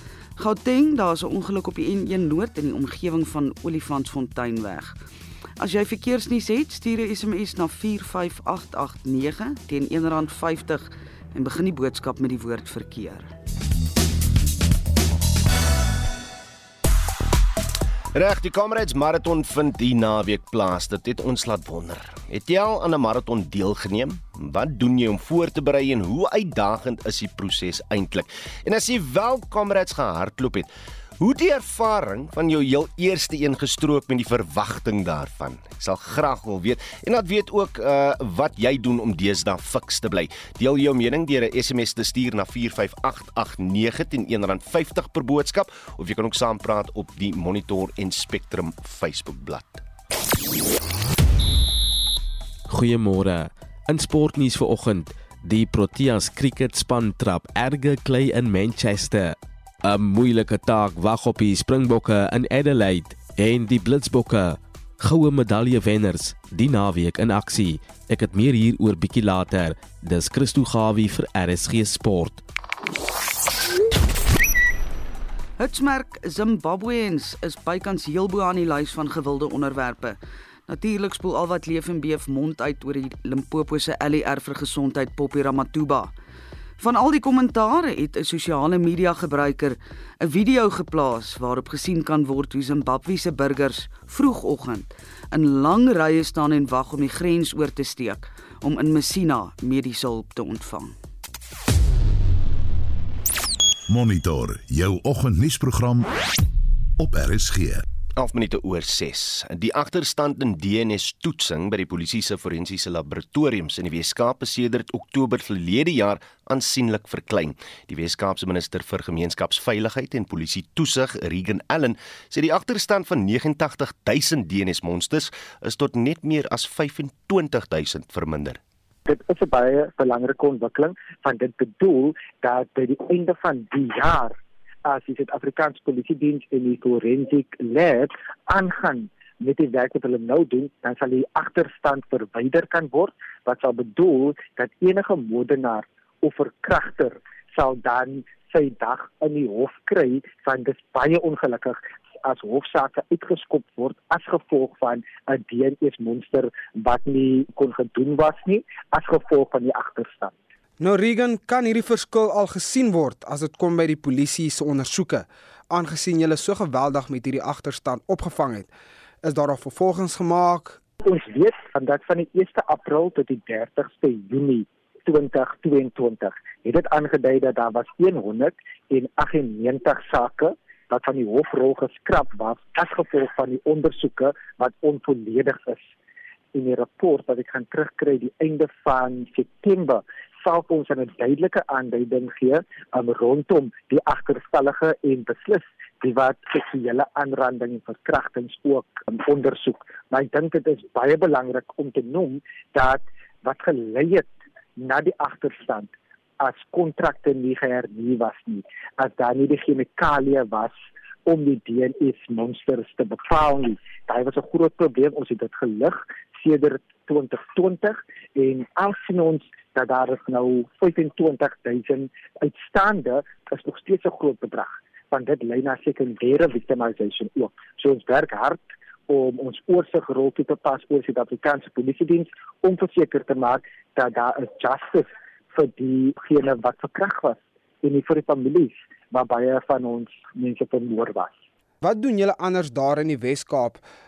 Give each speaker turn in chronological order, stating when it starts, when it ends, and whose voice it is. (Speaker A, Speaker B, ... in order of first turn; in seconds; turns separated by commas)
Speaker A: 0.4-5.0, Speaker A: 5.6-13.3, Speaker B: 18.1-49.8, Speaker C: 52.7-72.4, Speaker A: 75.6-86.1, Speaker A: 86.8-100.9, Speaker D: 103.9-106.1, Speaker D: 107.0-107.8, Speaker B: 108.2-128.6, Speaker E: 129.1-134.3, Speaker E: 134.8-160.3, Speaker F: 160.8-168.7, Speaker F: 169.2-170.8, Speaker E: 171.0-185.9, Speaker E: 186.5-210.8, Speaker E: 211.3-241.3, Speaker F: 241.8-243.8